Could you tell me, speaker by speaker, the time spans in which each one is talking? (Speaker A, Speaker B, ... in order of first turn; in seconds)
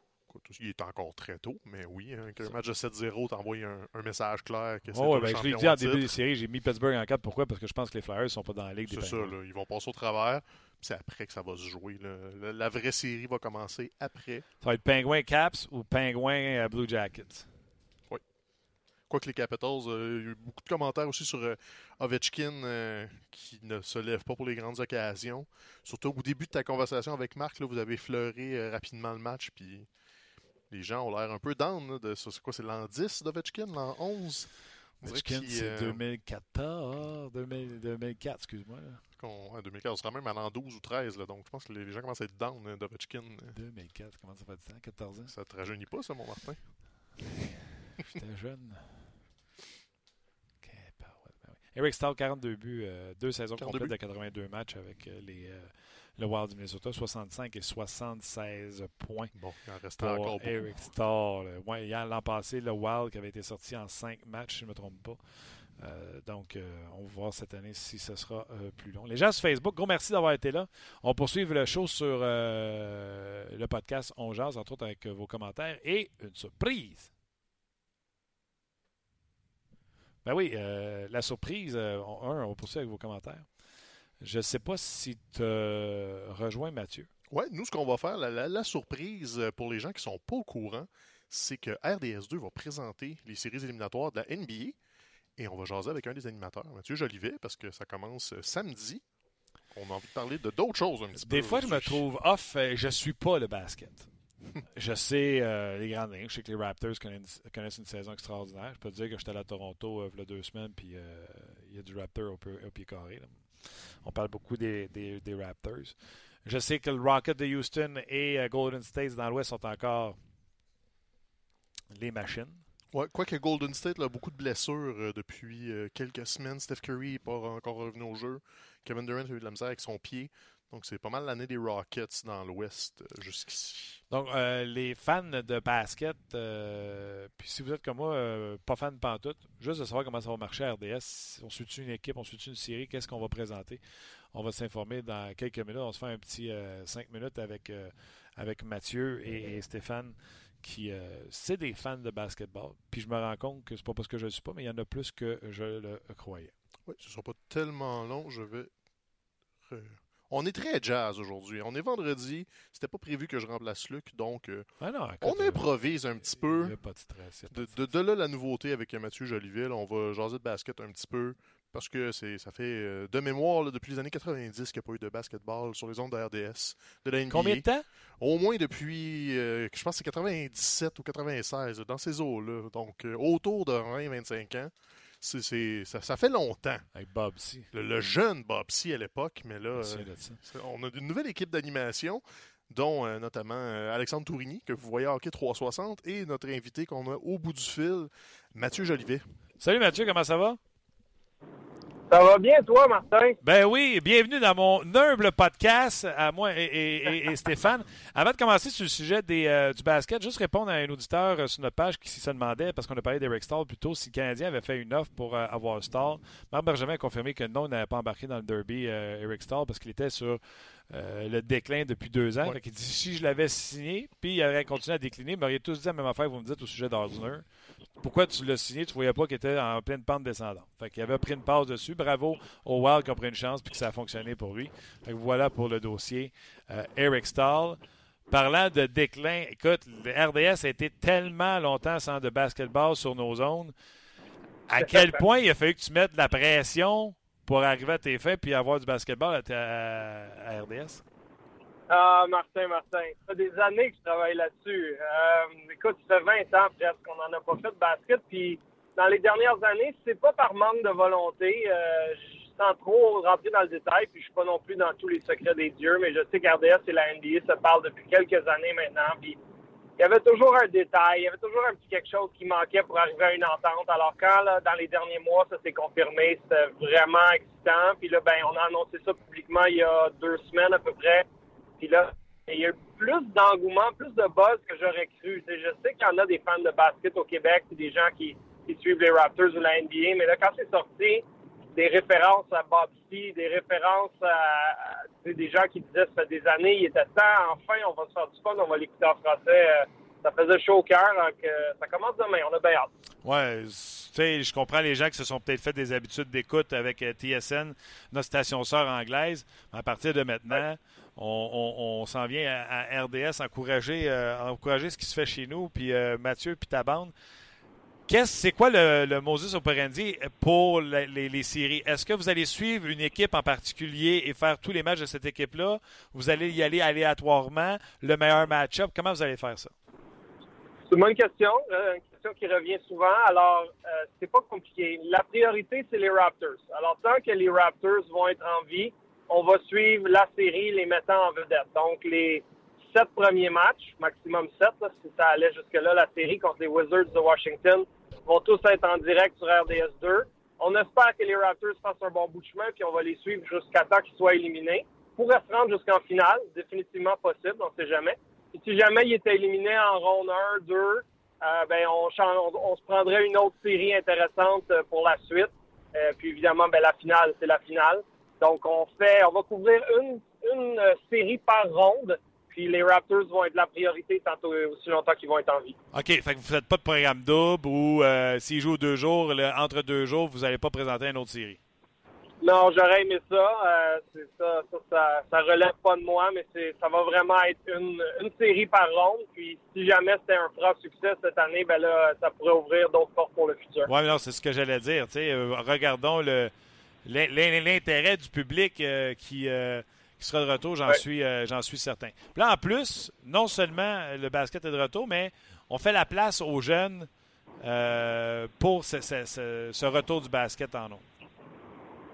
Speaker A: 0.2-6.1, 8.9-14.4, 19.1-29.9, 30.7-36.0, 39.1-43.6, 45.3-47.1, 53.6-53.9, 59.3-60.8, 87.3-94.8, 95.4-102.0, 122.9-134.0, 156.9-158.7, 159.7-166.9, 167.5-186.9, 187.7-199.2
Speaker B: 4.9-9.3, 14.6-17.5, 35.0-39.0, 43.5-45.3, 48.0-49.2, 50.6-59.3, 60.0-77.1, 80.2-83.6, 84.2-87.1, 101.1-104.1, 104.8-120.2, 121.9-122.6, 134.1-156.5, 164.8-167.8, 177.3-177.8, 186.9-187.7, 189.8-190.4, 199.6-200.6, 203.4-243.7, 244.7-251.0, 303.2-317.1, 318.1-329.7, 375.9-381.6, 393.8-396.5, 397.0-411.0
Speaker C: 202.1-203.4, 244.8-245.2, 251.9-269.4, 270.0-281.2, 281.8-302.9, 330.9-375.8, 382.4-393.9